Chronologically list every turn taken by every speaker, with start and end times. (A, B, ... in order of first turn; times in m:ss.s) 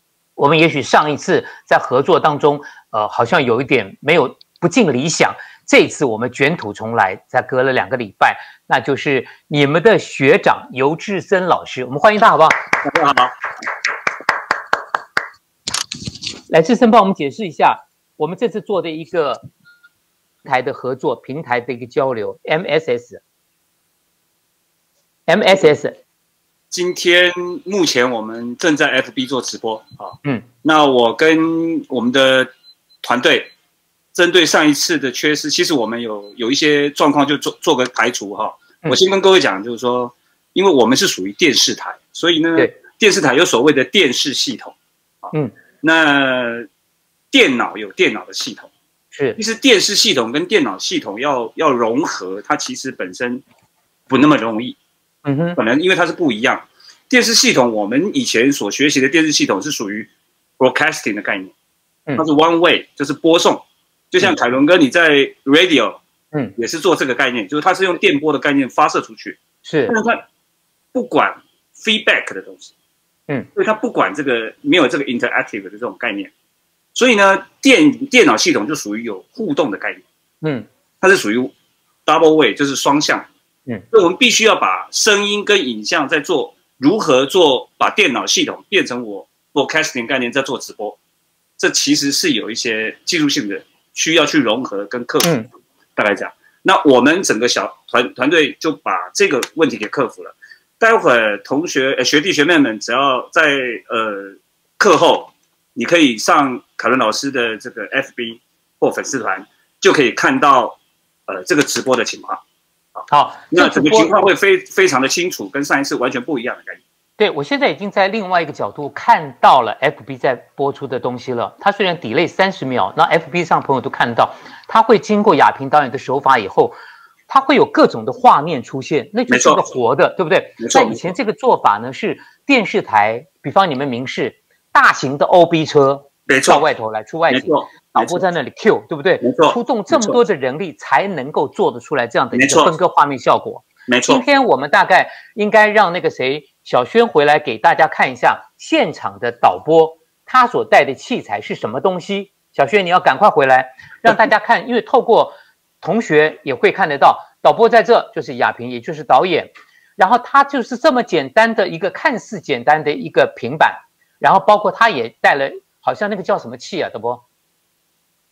0:00.4-0:12.7 A
0:12.8-0:13.3 B
0:16.5-0:19.4 A
0:20.4-0:23.2 A
0:25.3-0:26.0 A
0:26.7-0:32.5 B
0:33.0-0:33.5 B
0:34.1-0:46.6 B
0:47.3-0:48.7 B
0:49.1-0:49.4 A
0:49.4-0:53.4 B
0:54.1-0:54.8 B
0:55.2-0:55.6 A
0:55.6-1:01.5 B
1:02.2-1:06.0 B
1:06.6-1:10.2 B
1:09.6-1:09.9 A
1:10.9-1:12.7 B
1:13.6-1:16.3 B
1:16.9-1:20.0 B
1:20.4-1:20.7 A
1:21.0-1:21.5 B
1:22.0-1:23.3 B
1:23.9-1:31.0 B
1:31.6-1:35.3 B
1:36.0-1:52.4 B
1:53.1-1:54.2 A
1:53.5-1:56.8 B
1:57.2-2:06.8 A
2:07.3-2:47.2 A
2:09.3-2:09.6 B
2:10.6-2:11.1 B
2:16.3-2:16.6 B
2:17.3-2:18.2 B
2:19.2-2:20.2 B
2:22.3-2:22.7 B
2:23.9-2:24.2 B